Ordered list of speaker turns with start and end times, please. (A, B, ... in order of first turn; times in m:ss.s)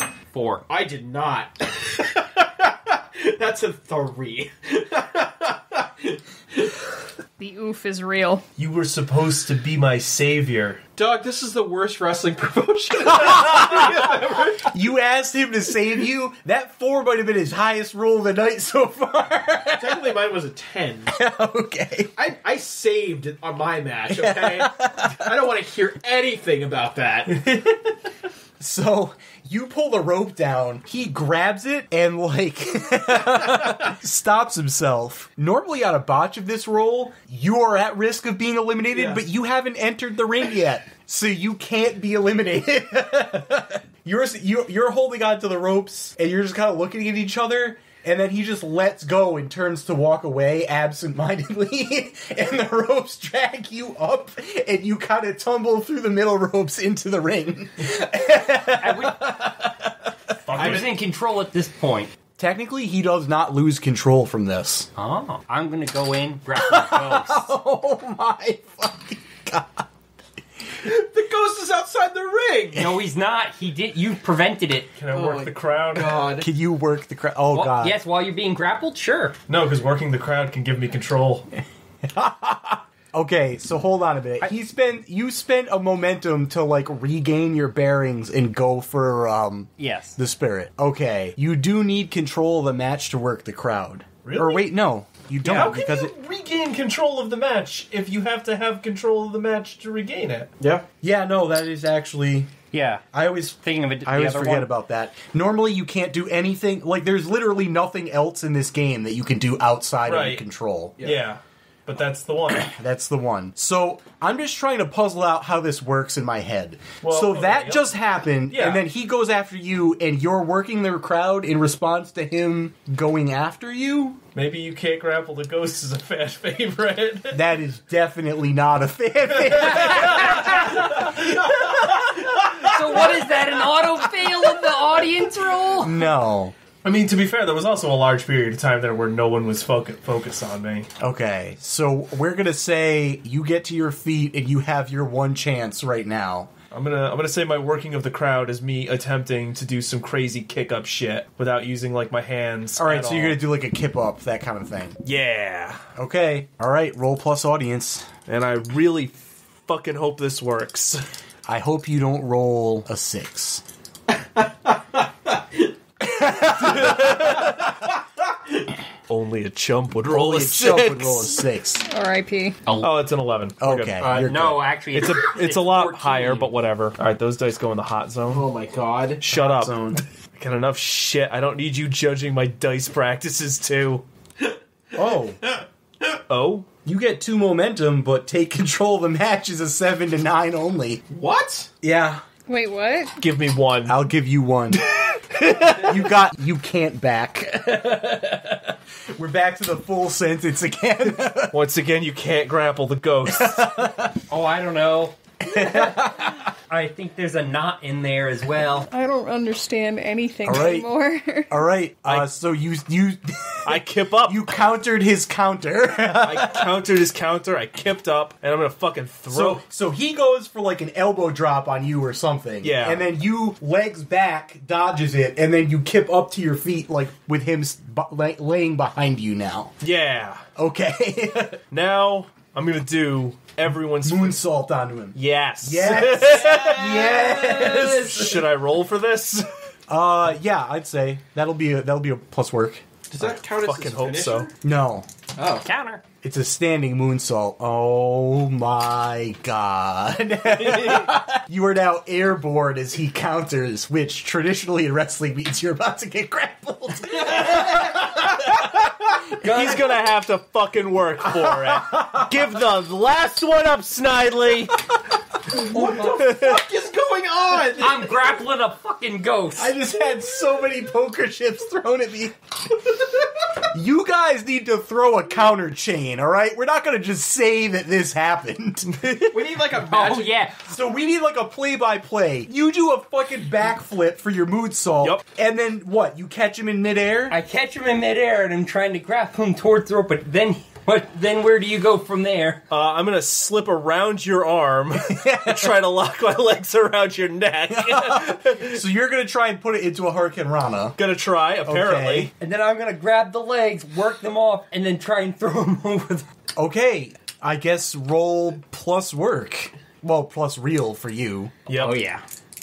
0:00.3-0:00.6 A
0:00.7-0:06.9 B
0:07.4-0:08.4 C
0:08.6-0:10.8 D
0:11.0-0:14.7 B
0:13.3-0:13.9 E
0:14.7-0:20.2 E
0:19.8-0:21.1 B
0:21.1-0:22.2 E
0:22.2-0:27.4 B
0:24.1-0:25.3 E
0:27.4-0:27.8 D
0:28.6-0:59.8 E
0:38.9-0:39.2 B
0:58.8-0:59.3 A
1:00.5-1:00.9 D
1:00.5-1:02.1 A
1:00.6-1:00.9 B
1:02.4-1:04.9 E
1:05.0-1:07.5 A
1:06.6-1:09.8 E
1:10.8-1:13.0 B
1:12.7-1:15.0 A
1:15.0-1:16.2 D
1:15.1-1:16.5 B
1:16.3-1:18.0 E
1:17.5-1:19.4 A
1:19.5-1:21.5 D
1:22.0-1:36.1 E
1:29.8-1:30.2 A
1:34.2-1:34.7 D
1:35.4-1:35.7 A
1:35.5-1:40.5 D
1:40.6-1:40.8 B
1:41.0-1:42.5 E
1:42.7-1:44.7 A
1:43.1-1:51.0 E
1:50.0-1:50.5 D
1:51.0-1:52.7 D
1:52.6-2:04.2 E
1:57.0-1:57.9 D
1:58.5-1:58.8 D
2:04.3-2:07.4 D
2:07.3-2:11.2 E
2:09.3-2:13.0 D
2:10.1-2:10.5 A
2:12.3-2:16.1 A
2:15.8-2:16.6 E
2:16.8-2:20.9 D
2:21.0-2:26.5 E
2:26.7-2:33.4 D
2:32.8-2:35.0 E
2:35.0-2:35.8 D
2:36.0-2:38.1 E
2:38.3-2:41.0 D
2:41.4-2:43.6 E
2:44.4-2:45.0 B
2:46.0-2:47.4 E
2:46.6-2:47.8 D
2:49.1-2:51.4 D
2:50.0-2:51.8 E
2:51.9-2:52.6 C
2:52.8-2:54.2 D
2:53.6-2:54.6 E
2:54.0-2:56.5 A
2:54.9-2:58.5 D
2:58.3-2:59.2 B
2:59.2-3:04.0 D
2:59.3-3:00.0 E
3:04.9-3:05.4 E
3:06.2-3:06.7 D
3:06.8-3:11.0 E
3:11.1-3:11.7 B
3:11.8-3:12.2 E
3:12.5-3:13.2 C
3:13.2-3:14.0 D
3:13.9-3:21.6 E
3:21.5-3:23.8 D
3:23.3-3:24.1 E
3:24.3-3:28.9 A
3:25.4-3:26.5 E
3:28.9-3:31.6 C
3:30.4-3:30.9 E
3:31.5-3:36.8 E
3:32.0-3:32.3 D
3:33.7-3:34.4 D
3:36.2-3:39.6 D
3:39.3-3:49.7 E
3:42.6-3:43.1 D
3:49.8-3:50.4 D
3:50.6-3:51.6 E
3:51.7-3:54.4 D
3:54.0-3:58.4 E
3:55.1-3:59.4 D
3:56.9-3:57.7 A
3:59.9-4:02.8 E
4:03.1-4:04.5 B
4:03.2-4:04.5 D
4:04.6-4:05.1 E
4:05.4-4:05.7 B
4:05.6-4:06.0 A
4:06.2-4:19.2 E
4:10.6-4:11.2 D
4:17.3-4:18.2 B
4:19.4-4:19.8 A
4:19.4-4:24.8 D
4:21.4-4:21.8 E
4:25.6-4:28.2 B
4:25.7-4:26.2 A
4:26.1-4:26.6 D
4:27.7-4:29.7 A
4:29.6-4:32.3 E
4:33.7-4:39.4 E
4:39.3-4:40.4 B
4:39.9-4:40.6 A
4:40.6-4:47.4 E
4:47.3-4:52.6 A
4:52.7-4:58.8 D
4:55.2-4:55.8 E
4:57.7-5:01.0 E
5:01.0-5:02.3 D
5:01.6-5:02.3 E
5:02.4-5:06.3 A
5:06.6-5:11.5 E
5:11.7-5:11.9 D
5:11.8-5:12.2 A